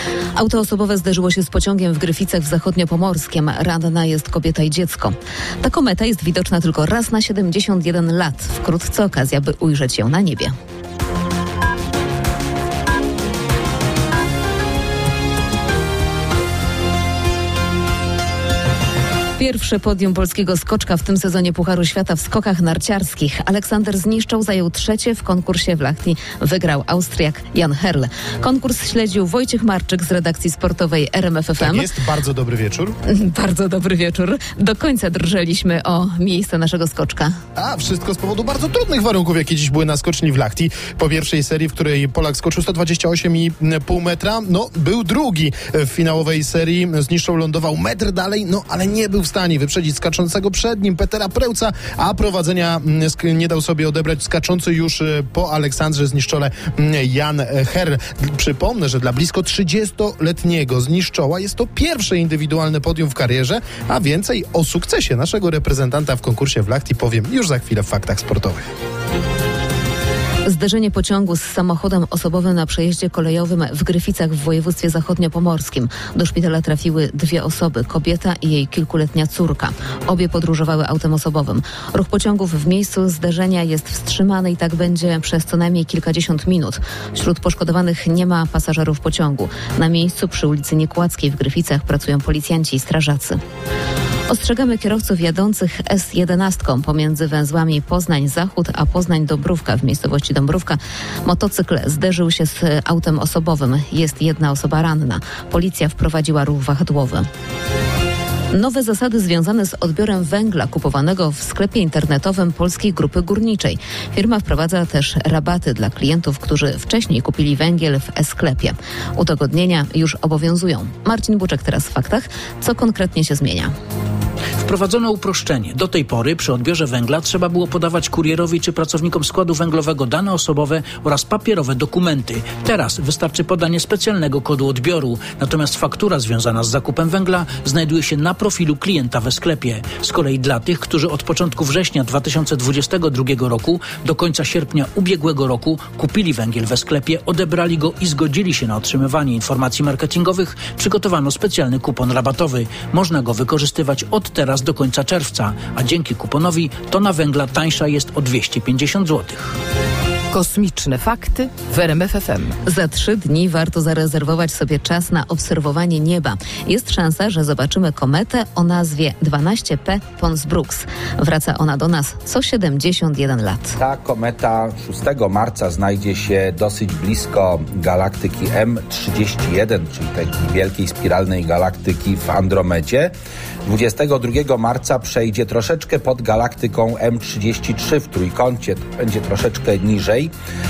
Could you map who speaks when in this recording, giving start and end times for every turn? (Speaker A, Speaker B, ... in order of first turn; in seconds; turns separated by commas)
Speaker A: 0.3-10.5, Speaker A: 19.4-31.9, Speaker B: 31.6-32.9, Speaker A: 33.1-37.3, Speaker B: 37.5-68.6, Speaker A: 70.4-93.4, Speaker A: 94.3-107.3, Speaker A: 108.5-123.7, Speaker C: 124.6-159.6, Speaker D: 160.3-162.6, Speaker A: 162.6-173.8, Speaker E: 173.8-183.1, Speaker E: 183.7-190.3